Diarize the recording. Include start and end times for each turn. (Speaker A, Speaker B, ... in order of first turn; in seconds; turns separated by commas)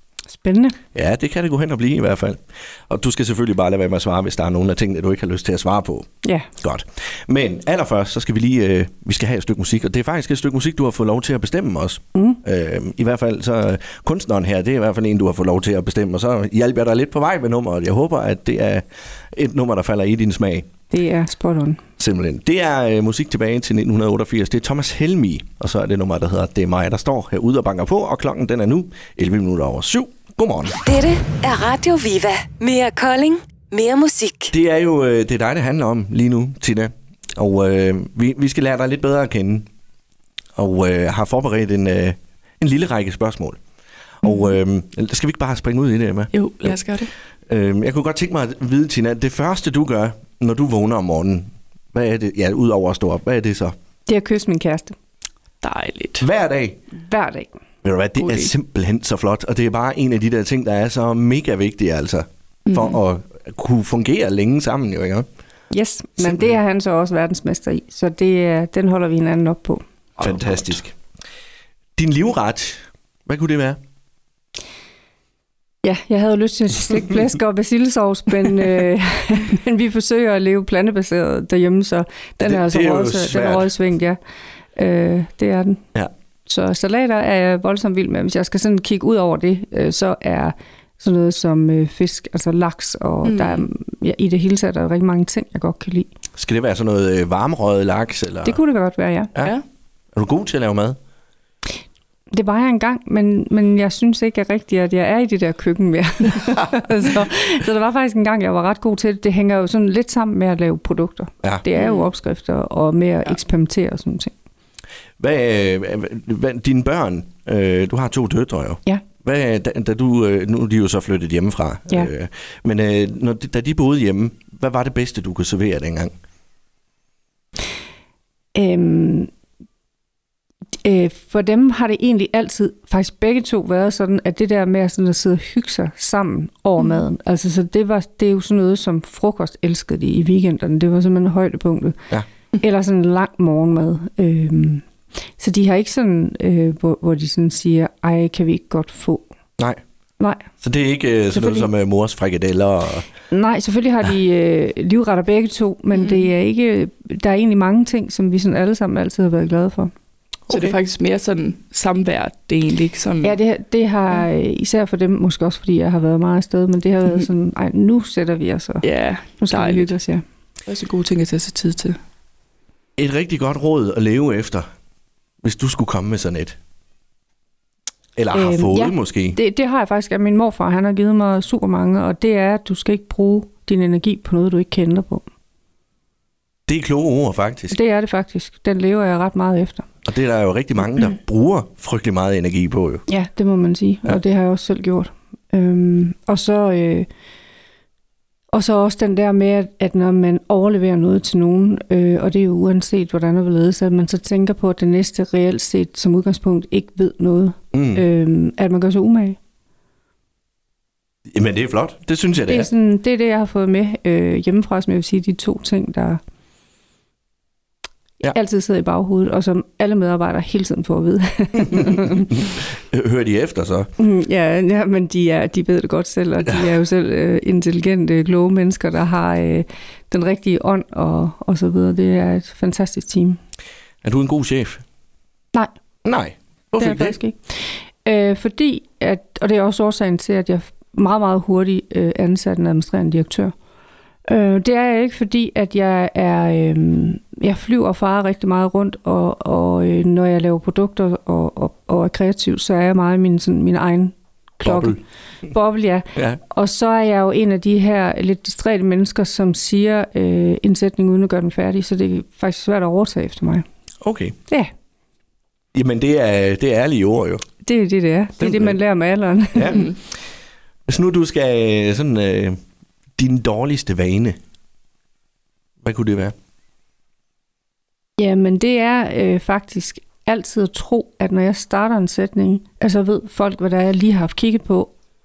Speaker A: 0.3-0.8, Speaker B: 0.9-6.1, Speaker A: 6.2-6.5, Speaker B: 6.6-20.7, Speaker A: 12.1-12.4, Speaker A: 20.9-21.8, Speaker B: 22.0-30.8, Speaker C: 30.8-34.5, Speaker B: 34.5-39.7, Speaker B: 40.5-43.6, Speaker B: 44.2-46.8, Speaker D: 46.3-47.1, Speaker B: 47.5-53.7, Speaker A: 54.1-54.9, Speaker D: 55.6-56.2, Speaker B: 56.2-56.8, Speaker A: 57.0-57.5, Speaker B: 57.8-65.2, Speaker D: 58.2-58.5, Speaker D: 62.6-63.0, Speaker A: 65.7-69.8, Speaker B: 70.2-71.0, Speaker B: 72.0-73.8, Speaker A: 75.8-84.2, Speaker B: 82.4-83.7, Speaker A: 84.8-85.8, Speaker A: 86.5-96.1, Speaker D: 93.2-93.6, Speaker B: 96.3-98.6, Speaker A: 98.4-99.3, Speaker B: 100.1-101.0, Speaker A: 102.3-114.3, Speaker D: 111.8-112.0, Speaker B: 115.2-126.1, Speaker A: 128.5-129.3, Speaker A: 130.8-144.8, Speaker A: 145.4-149.2, Speaker A: 150.2-150.4, Speaker B: 150.6-153.1, Speaker A: 151.3-151.7, Speaker A: 153.3-159.9, Speaker B: 160.5-160.8, Speaker D: 160.5-163.4, Speaker A: 163.2-168.8, Speaker D: 168.8-169.9, Speaker A: 169.4-170.2, Speaker D: 170.7-172.0, Speaker B: 173.0-174.7, Speaker B: 175.4-176.6, Speaker B: 178.2-179.4, Speaker A: 178.3-185.2, Speaker B: 186.7-187.8, Speaker A: 187.7-189.9, Speaker B: 190.0-193.0, Speaker A: 193.1-197.1, Speaker A: 198.5-209.4, Speaker B: 207.7-208.0, Speaker B: 211.3-212.7, Speaker A: 212.5-216.2, Speaker A: 218.3-222.3, Speaker B: 221.7-223.9, Speaker A: 224.0-233.4, Speaker B: 234.0-234.8, Speaker B: 236.0-237.2, Speaker A: 236.8-243.5, Speaker A: 244.3-263.6, Speaker B: 254.6-255.0, Speaker B: 264.0-264.4, Speaker B: 265.7-267.4, Speaker A: 267.6-269.9, Speaker B: 268.4-268.8, Speaker B: 269.5-270.0, Speaker B: 270.9-272.6, Speaker B: 273.2-274.4, Speaker B: 275.8-276.3, Speaker A: 278.2-284.9